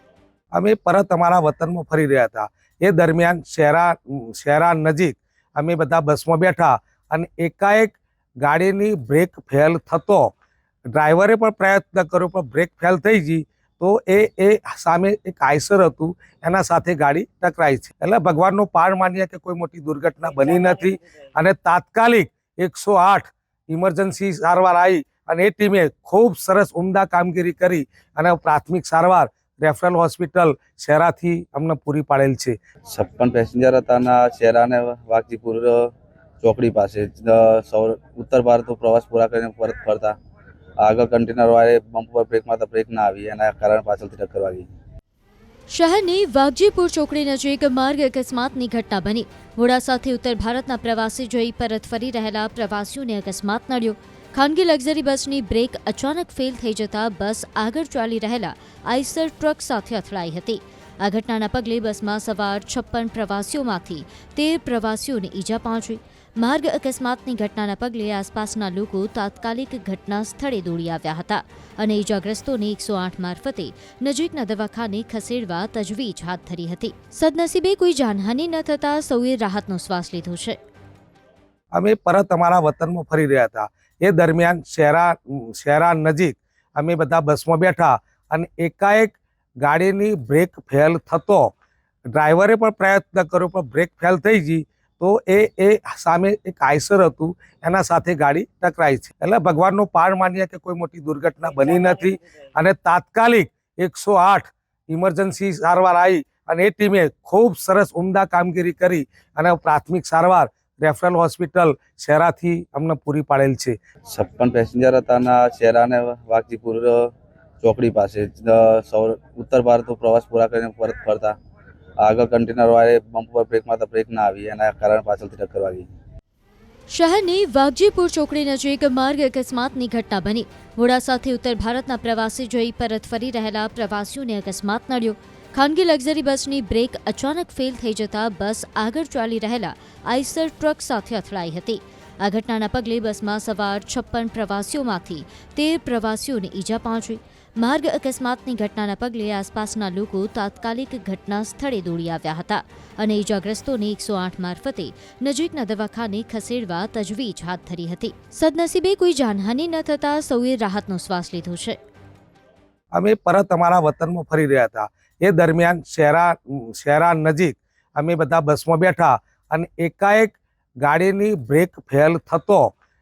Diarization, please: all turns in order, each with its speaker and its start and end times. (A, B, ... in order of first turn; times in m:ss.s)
0:00.5-0:10.3 A
0:10.9-0:32.6 A
0:32.9-0:40.2 B
0:40.8-0:44.7 B
0:45.7-1:20.6 C
1:21.7-1:31.5 A
1:32.1-1:53.8 A
1:54.1-2:01.4 B
2:02.0-2:05.9 B
2:06.9-2:41.8 C
2:42.9-2:52.7 A